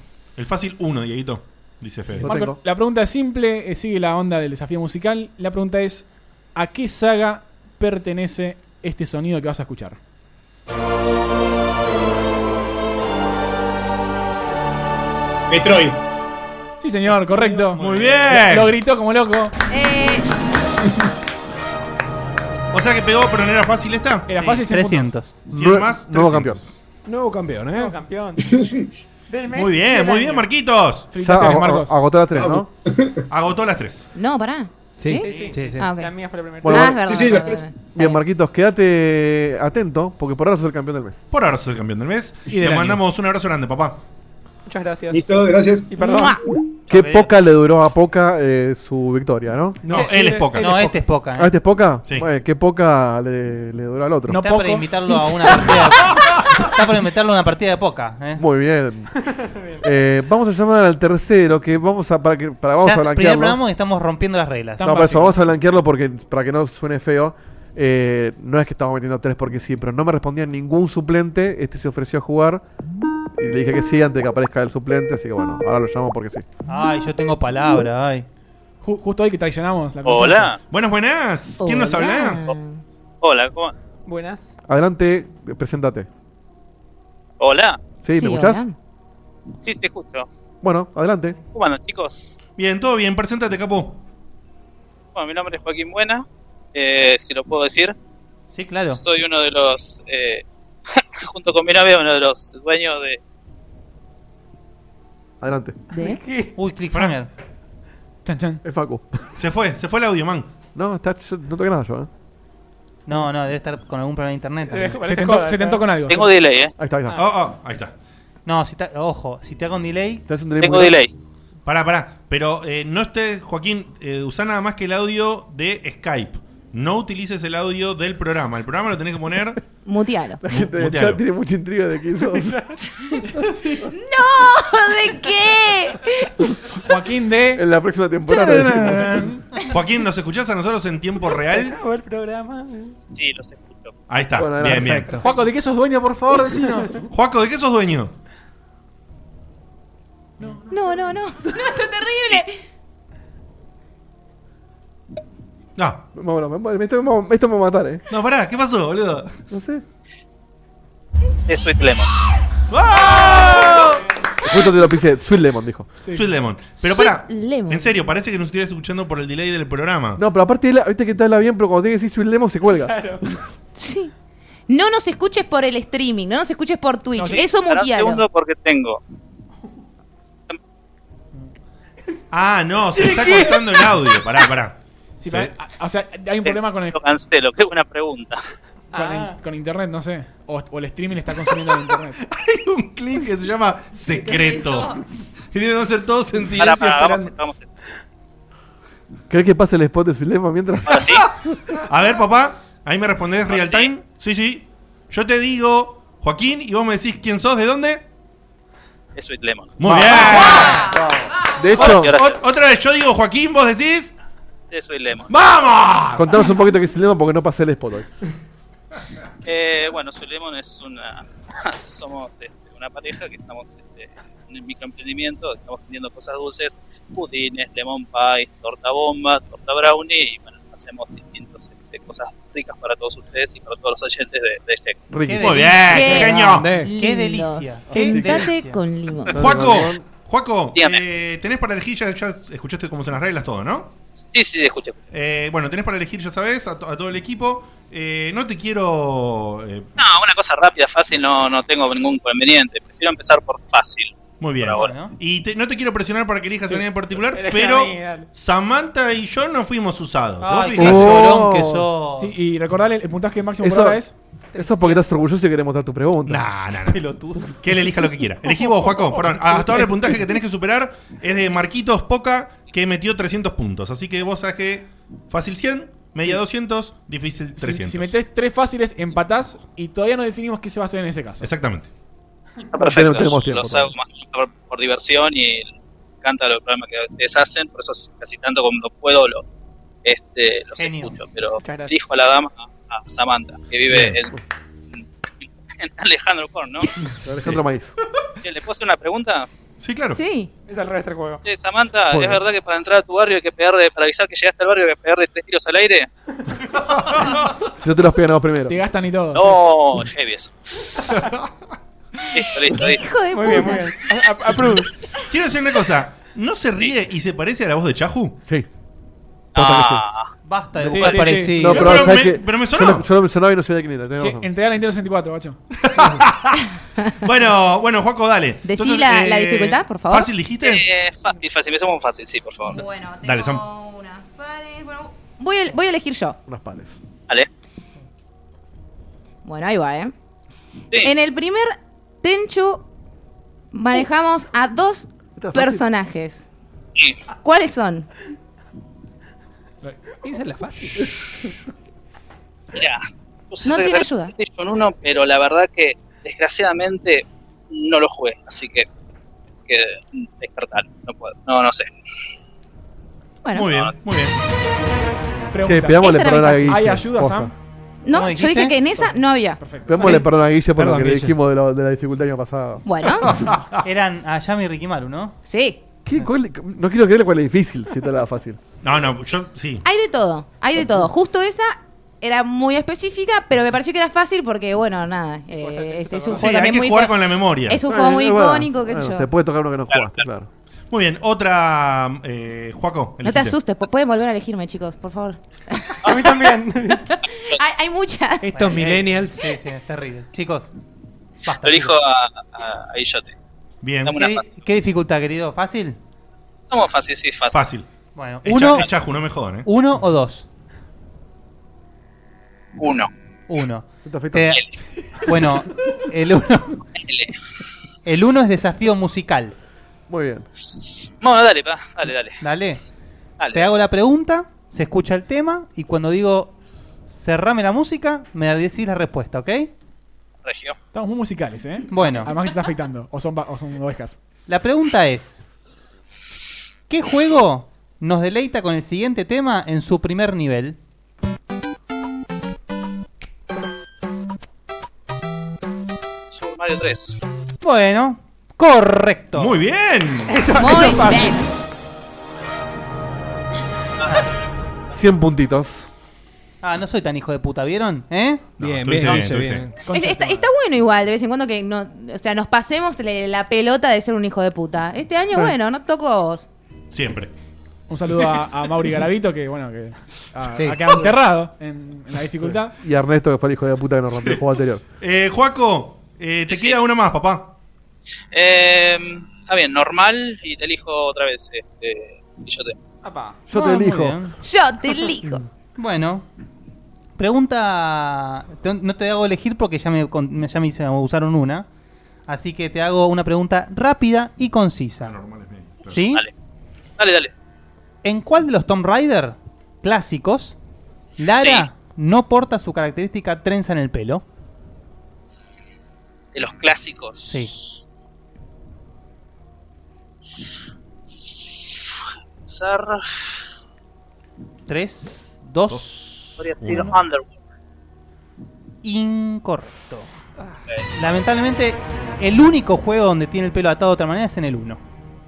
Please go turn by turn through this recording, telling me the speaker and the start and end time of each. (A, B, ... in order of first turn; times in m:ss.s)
0:00.4-0:02.3 A
0:02.2-0:02.6 B
0:02.2-0:10.0 C
0:15.5-0:16.0 D
0:16.8-0:19.5 C
0:17.4-0:17.8 E
0:17.8-0:18.7 A
0:19.7-0:20.2 F
0:22.7-0:24.3 A
0:24.3-0:25.2 C
0:24.3-0:25.4 G
0:25.5-0:26.8 A
0:25.5-0:26.6 B
0:27.0-0:27.9 H
0:27.7-0:28.5 E
0:28.5-0:28.9 D
0:29.3-0:30.5 E
0:29.5-0:31.1 A
0:31.1-0:31.9 C
0:31.2-0:32.7 B
0:32.3-0:33.2 D
0:33.3-0:34.1 A
0:34.1-0:36.1 F
0:35.0-0:35.9 H
0:35.1-0:36.9 E
0:36.6-0:37.0 B
0:36.6-0:38.2 F
0:36.7-0:37.7 D
0:37.9-0:41.2 B
0:41.3-0:44.0 A
0:44.6-0:45.2 E
0:45.1-0:45.9 D
0:45.9-0:46.4 E
0:46.0-0:46.4 F
0:46.9-0:49.9 B
0:46.9-0:47.3 G
0:49.8-0:50.2 H
0:49.9-0:50.8 A
0:49.9-0:50.8 E
0:50.6-0:51.5 G
0:51.4-0:54.4 B
0:54.3-0:54.9 C
0:54.3-0:58.4 G
0:58.4-0:59.1 B
0:59.2-0:59.8 E
0:59.8-1:03.6 B
1:02.8-1:05.0 G
1:04.8-1:12.6 B
1:04.8-1:05.4 C
1:13.4-1:16.4 B
1:16.7-1:18.2 G
1:18.8-1:20.5 C
1:20.0-1:20.6 I
1:20.7-1:22.4 A
1:21.6-1:22.8 F
1:23.2-1:23.7 I
1:24.0-1:24.5 E
1:24.6-1:26.1 B
1:27.4-1:27.8 I
1:28.0-1:28.6 B
1:28.1-1:28.7 F
1:29.6-1:30.3 I
1:30.6-1:31.4 B
1:31.5-1:32.4 I
1:32.6-1:34.0 A
1:35.1-1:37.9 I
1:38.5-1:39.0 G
1:38.9-1:43.2 I
1:45.4-1:45.8 B
1:45.9-1:46.6 E
1:45.9-1:46.2 F
1:46.6-1:47.3 G
1:48.2-1:48.6 C
1:48.6-1:49.1 B
1:49.4-1:50.5 A
1:50.7-1:52.1 B
1:53.0-1:55.0 G
1:54.7-1:55.8 E
1:54.9-1:56.3 C
1:56.1-1:56.7 I
1:56.8-1:57.2 B
1:57.1-1:57.9 A
1:58.4-2:00.2 G
2:00.3-2:01.0 B
2:00.6-2:01.1 I
2:01.6-2:09.6 A
2:09.8-2:10.4 F
2:10.4-2:12.6 B
2:10.5-2:11.2 A
2:13.9-2:16.3 F
2:16.8-2:17.6 C
2:17.5-2:19.3 B
2:18.3-2:19.4 C
2:19.7-2:21.7 A
2:21.3-2:23.0 E
2:23.1-2:23.9 I
2:24.1-2:25.1 A
2:24.4-2:25.1 B
2:24.6-2:25.3 H
2:25.2-2:27.0 C
2:27.1-2:28.1 A
2:30.7-2:32.6 F
2:35.8-2:36.0 A
2:36.1-2:38.0 B
2:38.1-2:39.4 A
2:39.5-2:39.8 B
2:41.5-2:42.1 I
2:42.7-2:44.0 A
2:43.1-2:44.0 E
2:44.4-2:46.0 B
2:46.0-2:46.4 C
2:46.1-2:50.2 A
2:46.8-2:48.0 F
2:50.2-2:53.4 B
2:52.8-2:53.2 E
2:53.7-2:54.1 F
2:54.7-2:58.2 F
2:57.6-2:59.0 I
3:02.3-3:05.5 A
3:03.0-3:03.9 E
3:05.2-3:07.0 C
3:06.4-3:08.4 I
3:08.9-3:09.4 E
3:08.9-3:12.2 C
3:12.2-3:15.0 A
3:14.1-3:14.9 F
3:15.5-3:17.3 A
3:16.5-3:17.7 I
3:19.3-3:21.5 B
3:20.8-3:21.2 I
3:21.7-3:28.0 A
3:23.5-3:23.9 I
3:29.2-3:30.1 I
3:29.8-3:31.0 A
3:29.8-3:32.2 B
3:30.6-3:30.9 F
3:31.7-3:32.4 I
3:31.7-3:34.1 A
3:34.7-3:35.3 I
3:35.3-3:36.4 A
3:36.1-3:38.1 B
3:39.4-3:55.0 I
3:55.1-3:55.6 B
3:55.2-3:58.8 G
3:55.4-3:56.8 A
3:55.9-3:59.4 F
3:56.4-3:56.9 H
3:57.9-3:58.5 B
3:59.3-4:00.0 B
3:59.3-4:03.9 A
4:00.7-4:01.0 I
4:04.3-4:05.0 I
4:05.1-4:09.9 A
4:10.0-4:14.9 I
4:14.4-4:21.4 A
4:14.7-4:15.2 G
4:17.3-4:18.3 E
4:20.4-4:22.3 G
4:20.8-4:21.9 B
4:22.2-4:24.1 C
4:23.6-4:24.0 B
4:24.5-4:25.0 E
4:24.6-4:26.5 B
4:26.2-4:38.2 A
4:26.9-4:27.4 H
4:37.6-4:41.5 C
4:41.4-4:41.9 A
4:42.7-4:49.4 I
4:42.8-4:43.9 B
4:50.0-4:54.3 I
4:50.8-4:51.2 G
4:51.6-4:52.0 E
4:53.9-4:54.2 A
4:54.9-4:56.9 I
4:57.2-4:58.0 B
4:58.4-4:59.5 I
4:59.8-5:00.2 A
5:00.1-5:00.5 F
5:00.7-5:01.4 E
5:01.4-5:06.1 I
5:02.1-5:02.4 B
5:06.9-5:07.4 A
5:07.8-5:08.8 B
5:08.7-5:09.6 C
5:09.3-5:10.5 I
5:12.3-5:13.0 I
5:12.7-5:14.0 F
5:13.3-5:14.9 E
5:15.3-5:18.4 A
5:19.5-5:20.0 B
5:19.5-5:20.3 I
5:20.4-5:22.1 G
5:20.8-5:21.8 C
5:20.8-5:24.5 B
5:21.7-5:23.1 A
5:24.2-5:25.6 C
5:25.8-5:26.6 A
5:27.2-5:30.8 A
5:28.6-5:30.3 F
5:30.6-5:32.8 I
5:32.6-5:36.4 F
5:33.2-5:33.6 A
5:36.5-5:37.0 B
5:39.4-5:40.1 F
5:41.0-5:42.8 F
5:43.7-5:46.4 F
5:45.4-5:45.8 B
5:47.0-5:47.2 I
5:47.4-5:48.1 F
5:50.2-5:51.1 H
5:52.7-5:58.9 I
5:53.6-5:54.3 F
5:59.7-6:01.9 I
6:03.4-6:03.7 F
6:03.5-6:04.3 A
6:05.5-6:07.5 C
6:05.6-6:07.5 B
6:06.0-6:06.8 F
6:08.0-6:09.6 F
6:08.1-6:08.8 G
6:08.9-6:10.2 C
6:09.8-6:12.8 B
6:10.0-6:11.4 H
6:12.8-6:13.4 F
6:13.2-6:13.8 A
6:13.8-6:15.4 G
6:15.4-6:15.8 F
6:16.0-6:18.6 B
6:18.8-6:19.8 A
6:19.8-6:29.2 F
6:25.5-6:26.5 E
6:26.3-6:27.8 A
6:27.8-6:30.5 B
6:29.9-6:30.2 I
6:30.9-6:33.6 A
6:33.2-6:36.4 F
6:36.0-6:37.0 E
6:37.5-6:38.5 F
6:38.4-6:39.4 H
6:38.5-6:40.7 G
6:41.4-6:41.9 G
6:41.6-6:43.3 I
6:43.8-6:44.3 A
6:44.0-6:44.4 I
6:44.1-6:46.0 G
6:46.7-6:47.7 I
6:47.5-6:47.9 A
6:48.1-6:48.9 G
6:48.4-6:49.7 A
6:49.6-6:50.4 G
6:52.8-6:53.1 I
6:53.5-6:54.6 G
6:54.0-6:54.6 B
6:55.2-6:56.8 G
6:57.0-6:57.3 I
6:58.0-6:59.5 G
7:00.1-7:00.4 B
7:00.6-7:02.4 I
7:02.4-7:02.8 G
7:03.4-7:03.7 I
7:03.5-7:06.5 G
7:07.1-7:09.7 G
7:10.4-7:10.8 I
7:10.9-7:14.2 C
7:11.9-7:12.3 G
7:14.5-7:15.4 G
7:16.9-7:20.8 G
7:26.3-7:27.2 I
7:27.6-7:29.5 G
7:29.4-7:30.9 A
7:30.3-7:31.4 E
7:30.6-7:31.4 F
7:34.9-7:35.9 B
7:36.6-7:38.5 G
7:38.6-7:39.7 A
7:38.6-7:39.7 H
7:39.8-7:40.5 C
7:39.9-7:46.5 F
7:46.9-7:47.3 A
7:47.9-7:52.8 C
7:50.4-7:51.0 H
7:52.4-7:54.8 B
7:55.0-7:57.5 A
7:56.5-7:56.8 I
7:58.3-8:02.8 I
8:03.0-8:03.4 E
8:03.5-8:04.2 B
8:03.5-8:04.3 G
8:04.4-8:05.4 F
8:05.8-8:06.2 G
8:07.2-8:11.7 G
8:12.3-8:15.1 G
8:15.0-8:16.0 A
8:15.9-8:16.2 G
8:17.0-8:17.3 I
8:18.0-8:20.6 G
8:21.2-8:24.2 G
8:21.3-8:21.6 I
8:26.3-8:27.5 I
8:27.2-8:27.5 G
8:31.7-8:31.9 I
8:32.5-8:33.4 I
8:34.7-8:36.3 G
8:35.7-8:37.0 A
8:36.4-8:37.3 I
8:38.8-8:40.1 G
8:40.9-8:44.8 G